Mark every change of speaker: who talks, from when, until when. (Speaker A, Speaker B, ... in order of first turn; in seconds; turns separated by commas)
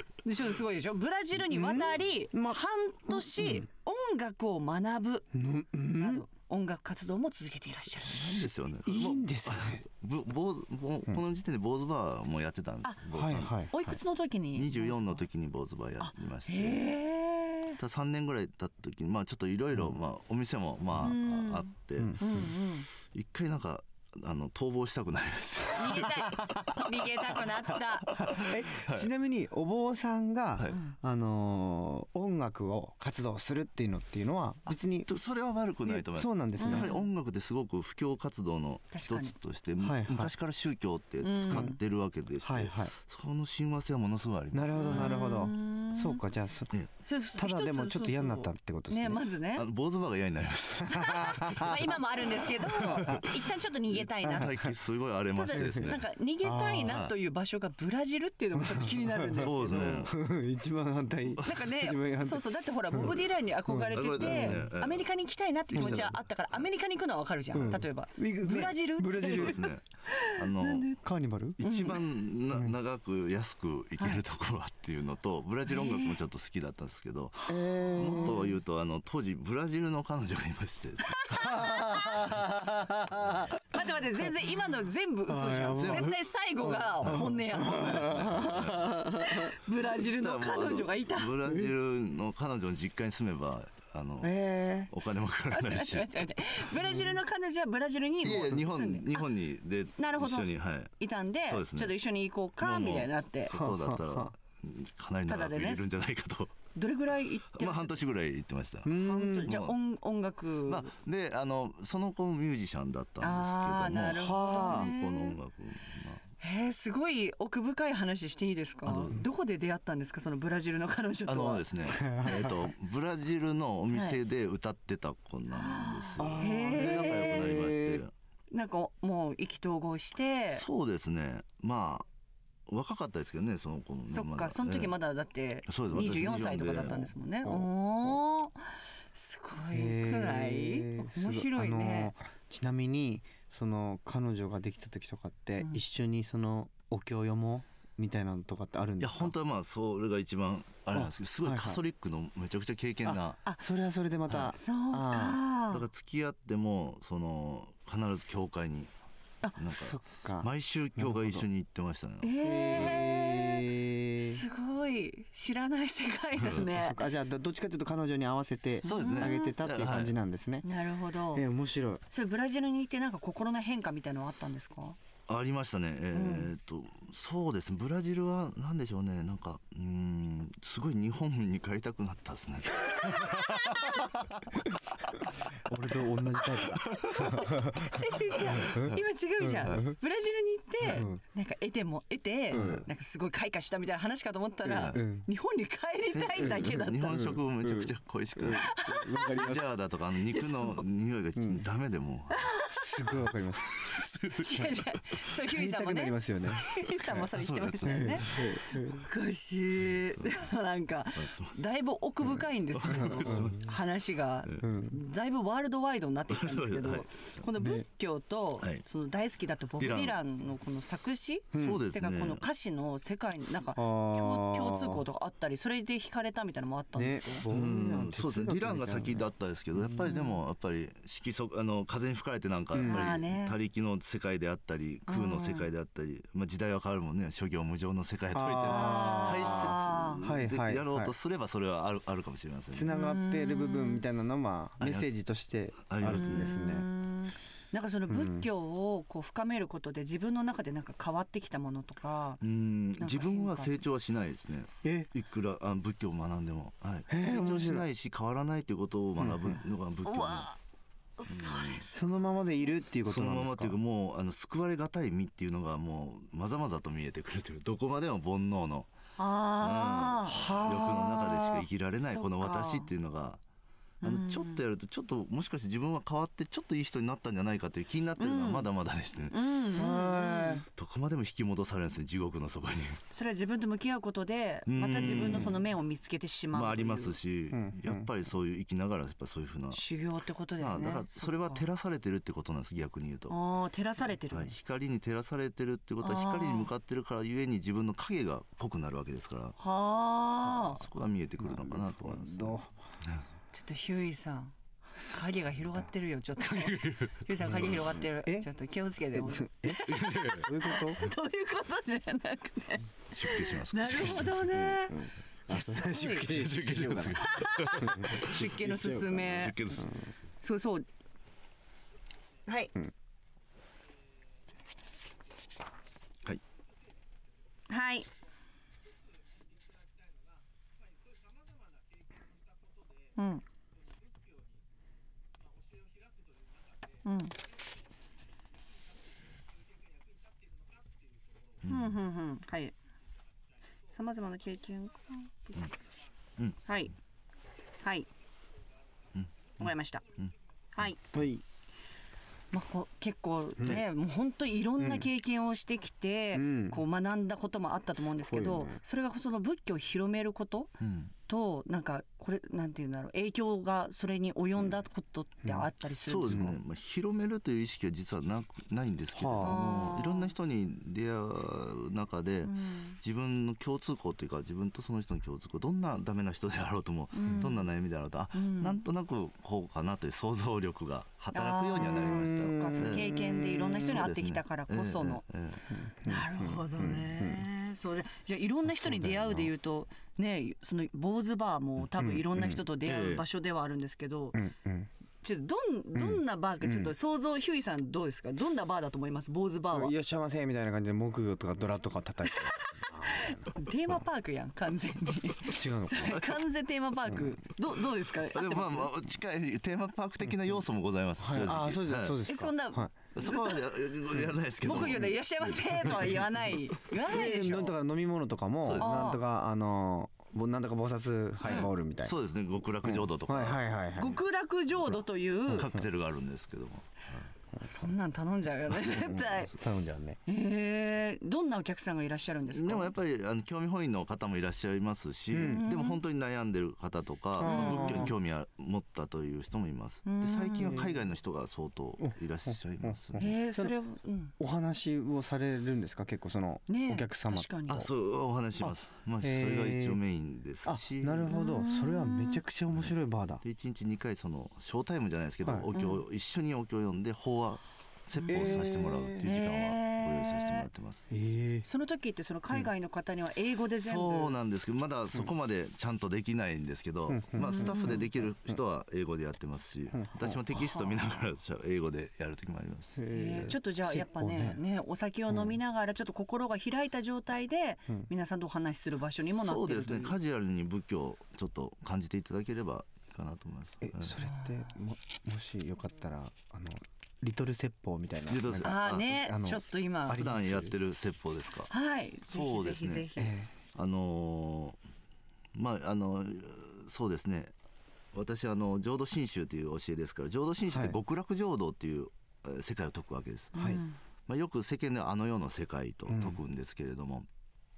Speaker A: 0.2-5.3, Speaker B: 1.5-3.6, Speaker B: 5.3-6.2, Speaker A: 6.0-8.4, Speaker C: 8.0-13.6, Speaker B: 8.8-9.8, Speaker B: 13.1-13.9, Speaker A: 13.7-15.2, Speaker C: 14.5-16.9, Speaker A: 16.0-17.8, Speaker C: 17.8-22.4, Speaker A: 21.0-22.9, Speaker B: 22.0-22.5, Speaker C: 23.0-26.8, Speaker A: 25.7-28.2, Speaker C: 28.1-29.1, Speaker B: 28.1-35.1, Speaker C: 35.0-45.2, Speaker B: 35.9-36.9, Speaker A: 36.6-37.0, Speaker A: 38.9-39.3, Speaker B: 39.8-40.3, Speaker A: 41.2-41.8, Speaker B: 41.5-41.8, Speaker B: 42.4-42.9, Speaker B: 44.5-46.7, Speaker A: 44.8-46.2, Speaker A: 47.0-49.6, Speaker B: 47.4-49.2, Speaker C: 49.6-51.8, Speaker A: 50.9-54.5, Speaker B: 51.1-51.7, Speaker C: 52.8-53.3, Speaker B: 53.0-53.2, Speaker C: 54.2-56.0, Speaker B: 54.2-54.6, Speaker A: 55.3-60.0, Speaker B: 55.5-55.9, Speaker B: 56.4-57.0, Speaker C: 56.9-57.1, Speaker B: 58.8-64.7, Speaker C: 59.4-60.1, Speaker A: 61.4-71.0, Speaker C: 63.9-65.1, Speaker C: 65.7-66.1, Speaker B: 65.7-66.1, Speaker B: 67.5-69.6, Speaker C: 69.2-70.9, Speaker B: 71.0-71.6, Speaker C: 71.6-82.5, Speaker A: 71.6-72.0, Speaker A: 75.7-76.2, Speaker B: 77.5-78.5, Speaker A: 78.0-78.4, Speaker A: 81.1-82.3, Speaker B: 81.7-83.4, Speaker C: 83.1-83.5, Speaker A: 83.7-88.6, Speaker B: 85.3-89.5, Speaker C: 85.8-86.2, Speaker C: 87.0-87.3, Speaker C: 87.9-88.9, Speaker A: 89.2-91.3, Speaker C: 90.0-96.1, Speaker B: 91.5-91.7, Speaker B: 94.2-94.9, Speaker A: 95.5-99.3, Speaker C: 98.2-100.9, Speaker A: 100.0-103.5, Speaker C: 101.5-102.0, Speaker C: 102.6-106.5, Speaker B: 103.5-104.3, Speaker A: 105.3-105.9, Speaker A: 106.7-108.0, Speaker C: 107.5-108.9, Speaker B: 108.8-109.5, Speaker A: 108.9-110.9, Speaker C: 109.5-109.8, Speaker C: 110.7-116.2, Speaker A: 113.2-115.3, Speaker B: 114.2-114.9, Speaker A: 116.4-121.6, Speaker C: 118.8-119.2, Speaker C: 121.3-128.1, Speaker B: 122.0-122.5, Speaker A: 123.9-124.2, Speaker A: 125.5-127.6, Speaker B: 126.2-128.0, Speaker A: 128.5-130.6, Speaker C: 130.5-132.1, Speaker C: 132.7-134.9, Speaker A: 134.1-142.1, Speaker C: 135.7-137.1, Speaker B: 137.4-138.1, Speaker B: 139.7-149.3, Speaker C: 149.0-153.4, Speaker B: 150.9-151.8, Speaker B: 153.1-155.4, Speaker C: 154.3-154.6, Speaker A: 154.5-155.8, Speaker C: 155.7-158.9, Speaker C: 159.6-162.9, Speaker B: 159.7-161.4, Speaker A: 162.2-163.7, Speaker B: 162.4-164.4, Speaker A: 164.2-167.0, Speaker C: 166.4-166.7, Speaker B: 166.7-170.7, Speaker A: 168.8-169.5, Speaker C: 168.8-170.1, Speaker A: 170.6-171.4, Speaker B: 171.3-172.0, Speaker A: 172.1-175.0, Speaker C: 175.3-184.0, Speaker A: 176.1-176.5, Speaker A: 182.8-184.1, Speaker B: 185.6-188.0, Speaker C: 186.8-187.1, Speaker A: 187.0-197.3, Speaker B: 188.6-189.9, Speaker B: 190.8-191.2, Speaker B: 192.5-192.9, Speaker C: 192.5-192.8, Speaker C: 194.7-195.0, Speaker B: 194.9-195.3, Speaker C: 196.1-198.7, Speaker B: 196.4-199.6, Speaker A: 198.5-199.4, Speaker C: 199.3-202.5, Speaker A: 200.3-200.8, Speaker B: 201.3-201.6, Speaker A: 202.3-202.9, Speaker B: 202.7-203.8, Speaker C: 203.8-204.7, Speaker A: 204.0-227.4, Speaker B: 205.5-207.2, Speaker C: 207.3-208.5, Speaker B: 207.8-209.0, Speaker C: 211.2-211.6, Speaker C: 212.7-213.7, Speaker B: 212.9-213.5, Speaker B: 214.6-214.9, Speaker C: 216.3-217.4, Speaker B: 217.6-217.8, Speaker C: 219.8-220.2, Speaker B: 221.5-221.8, Speaker C: 221.6-222.4, Speaker B: 223.8-225.0, Speaker B: 226.9-230.2, Speaker C: 227.5-242.9, Speaker A: 230.0-230.4, Speaker B: 232.7-233.1, Speaker A: 232.8-233.6, Speaker A: 235.1-235.7, Speaker B: 238.3-241.1, Speaker A: 238.7-240.2, Speaker B: 242.7-246.9, Speaker A: 242.9-244.0, Speaker C: 244.8-245.1, Speaker C: 245.8-246.5, Speaker A: 246.1-252.4, Speaker B: 248.1-248.5, Speaker C: 252.4-260.5, Speaker A: 253.0-253.8, Speaker B: 254.8-255.1, Speaker B: 257.1-257.8, Speaker B: 259.2-259.6, Speaker A: 260.1-260.6, Speaker A: 261.2-262.5, Speaker C: 261.2-261.8, Speaker B: 261.9-263.8, Speaker C: 263.0-268.9, Speaker A: 269.2-272.9, Speaker C: 269.5-273.4, Speaker A: 274.0-274.6, Speaker C: 274.0-279.5, Speaker A: 278.2-278.7, Speaker A: 279.3-280.6, Speaker B: 279.8-280.6, Speaker C: 280.7-283.0, Speaker A: 283.1-287.2, Speaker C: 284.7-285.6, Speaker C: 286.5-289.8, Speaker B: 287.5-288.1, Speaker A: 289.7-291.6, Speaker C: 290.6-293.4, Speaker A: 293.3-294.5, Speaker C: 294.3-299.6, Speaker A: 296.0-296.7, Speaker A: 299.6-300.8, Speaker C: 300.6-303.2, Speaker B: 301.4-302.7, Speaker A: 303.5-316.3, Speaker C: 306.5-307.6, Speaker B: 307.5-308.5, Speaker B: 309.1-311.0, Speaker C: 309.9-310.4, Speaker C: 313.1-314.6, Speaker B: 314.5-317.2, Speaker C: 316.1-318.4, Speaker A: 317.1-319.6, Speaker B: 317.8-320.0, Speaker C: 319.2-320.1, Speaker A: 320.4-320.9, Speaker A: 322.4-322.7, Speaker A: 327.7-328.1, Speaker A: 333.1-333.4, Speaker A: 337.0-337.3, Speaker C: 341.6-342.0, Speaker A: 341.6-342.7, Speaker A: 343.9-345.7, Speaker A: 346.6-346.9, Speaker A: 347.8-348.1, Speaker A: 349.6-350.1, Speaker A: 350.8-351.0, Speaker B: 351.0-351.4, Speaker A: 352.5-360.7, Speaker B: 354.8-355.0, Speaker B: 356.3-356.8, Speaker B: 358.1-358.8, Speaker C: 360.8-361.1, Speaker A: 361.3-366.5, Speaker C: 366.0-383.2, Speaker B: 366.3-366.6, Speaker B: 369.1-369.9, Speaker A: 369.4-370.3, Speaker A: 372.4-373.0, Speaker A: 377.1-377.7, Speaker A: 378.3-378.8, Speaker A: 381.3-385.2, Speaker B: 382.0-384.0, Speaker C: 383.8-385.7, Speaker B: 385.7-387.4, Speaker A: 386.0-394.4, Speaker B: 388.7-389.5, Speaker B: 392.0-392.3, Speaker C: 392.4-393.2, Speaker B: 394.3-394.9, Speaker A: 395.2-399.9, Speaker B: 395.9-396.9, Speaker B: 399.7-403.5, Speaker A: 402.3-408.9, Speaker B: 405.4-406.2, Speaker C: 408.3-412.2, Speaker B: 411.2-413.1, Speaker A: 412.2-413.6, Speaker C: 413.1-416.3, Speaker A: 414.6-417.7, Speaker B: 417.0-422.1, Speaker C: 418.6-419.0, Speaker A: 418.8-419.2, Speaker C: 421.4-423.6, Speaker B: 422.8-424.2, Speaker A: 423.9-425.7, Speaker C: 425.5-427.3, Speaker B: 425.5-425.8, Speaker A: 427.6-429.5, Speaker B: 429.0-430.2, Speaker A: 430.2-432.9, Speaker C: 432.5-443.2, Speaker B: 435.3-435.6, Speaker A: 435.4-436.0, Speaker B: 437.4-438.1, Speaker A: 437.4-438.1, Speaker A: 440.0-440.8, Speaker B: 440.6-440.9, Speaker B: 442.0-443.7, Speaker A: 443.2-444.3, Speaker B: 444.4-447.9, Speaker A: 446.7-447.9, Speaker C: 447.7-451.4, Speaker B: 448.6-450.0, Speaker B: 450.6-453.4, Speaker A: 451.3-452.4, Speaker C: 452.7-461.2, Speaker A: 455.7-456.0, Speaker A: 458.1-458.7, Speaker B: 458.3-459.2, Speaker A: 459.2-460.6, Speaker B: 461.1-461.7, Speaker A: 461.6-464.3, Speaker C: 463.8-473.0, Speaker B: 467.1-468.6, Speaker A: 467.4-468.0, Speaker B: 469.9-470.4, Speaker A: 470.5-471.0, Speaker B: 472.9-474.6, Speaker A: 473.1-480.1, Speaker C: 479.2-484.2, Speaker B: 483.8-490.7, Speaker A: 484.3-484.7, Speaker C: 488.3-489.1, Speaker A: 488.6-490.2, Speaker C: 490.1-491.7, Speaker A: 491.7-493.3, Speaker C: 492.3-493.1, Speaker B: 493.2-493.5, Speaker C: 493.7-494.8, Speaker C: 495.5-497.5, Speaker C: 498.1-503.7, Speaker B: 500.7-500.9, Speaker A: 503.5-503.9, Speaker C: 504.3-507.3, Speaker B: 506.1-506.4